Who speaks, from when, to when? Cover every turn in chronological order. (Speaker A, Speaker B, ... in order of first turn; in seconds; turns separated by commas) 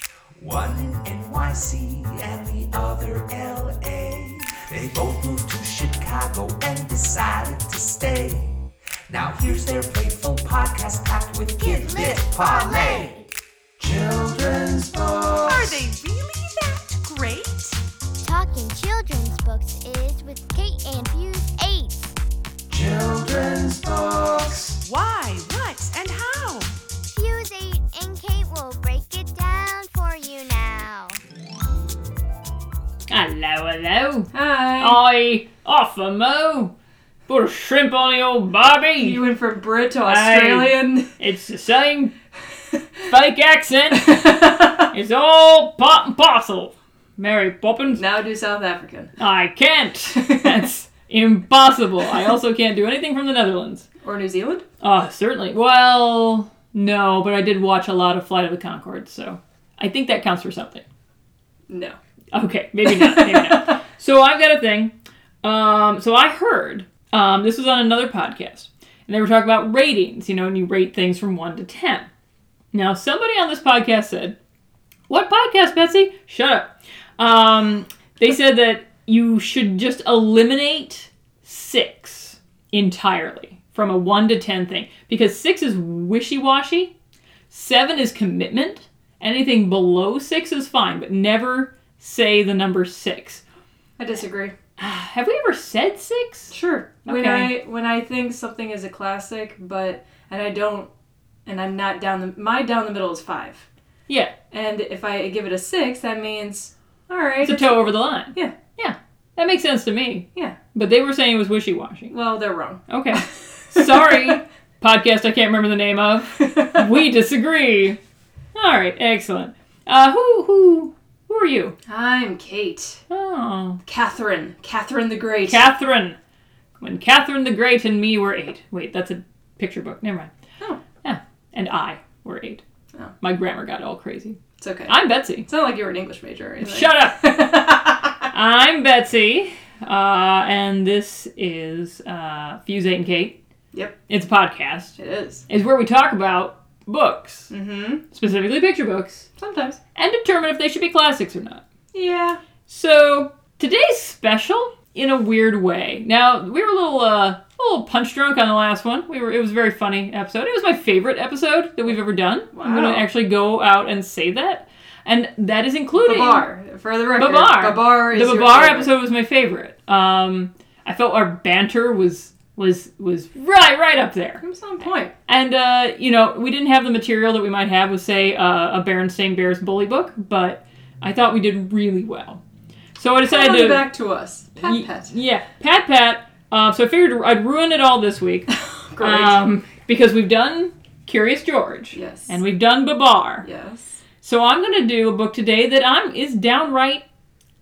Speaker A: 0.4-13.2, Speaker B: 11.6-13.3, Speaker A: 13.8-15.9, Speaker C: 15.4-17.8, Speaker B: 18.2-22.1, Speaker A: 22.7-24.8, Speaker C: 24.8-26.7, Speaker B: 27.1-31.2, Speaker D: 33.1-36.7, Speaker E: 34.3-35.0, Speaker D: 37.3-39.2, Speaker E: 39.0-41.1, Speaker D: 40.0-42.1, Speaker D: 43.1-44.3, Speaker E: 44.0-44.9, Speaker D: 44.9-48.0, Speaker E: 47.9-49.1, Speaker D: 49.2-53.9, Speaker E: 50.1-50.6, Speaker E: 54.0-54.6, Speaker D: 54.8-60.8, Speaker E: 61.7-62.0, Speaker D: 62.3-72.1, Speaker E: 62.9-63.7, Speaker D: 72.7-74.3, Speaker D: 75.1-86.9, Speaker D: 87.5-93.4, Speaker E: 94.0-94.5, Speaker D: 94.8-96.5, Speaker E: 96.5-100.9, Speaker D: 97.0-97.5, Speaker E: 101.5-103.7, Speaker D: 104.1-104.3, Speaker E: 104.5-108.5, Speaker D: 107.4-112.1, Speaker E: 112.1-114.4, Speaker D: 112.9-118.0, Speaker E: 116.4-116.9, Speaker D: 118.5-121.8, Speaker E: 121.9-123.0, Speaker D: 123.1-123.8, Speaker E: 123.8-125.7, Speaker D: 125.5-126.2, Speaker D: 126.8-130.3, Speaker D: 131.0-132.6, Speaker D: 133.2-135.5, Speaker E: 134.6-134.9, Speaker E: 135.4-138.3, Speaker D: 136.6-137.3, Speaker D: 138.3-143.4, Speaker D: 144.1-144.9, Speaker E: 145.0-145.4, Speaker D: 145.5-147.5, Speaker E: 147.5-148.0, Speaker D: 148.1-149.3, Speaker E: 149.4-149.8, Speaker D: 149.9-151.6, Speaker E: 151.9-152.4, Speaker D: 152.7-166.4, Speaker E: 162.5-163.1, Speaker E: 165.9-168.9, Speaker D: 167.2-182.4, Speaker E: 174.4-175.1, Speaker D: 182.9-183.9, Speaker E: 183.2-185.1, Speaker D: 184.6-193.4, Speaker E: 188.5-189.5, Speaker E: 191.9-192.4, Speaker E: 193.4-194.0, Speaker D: 194.2-197.0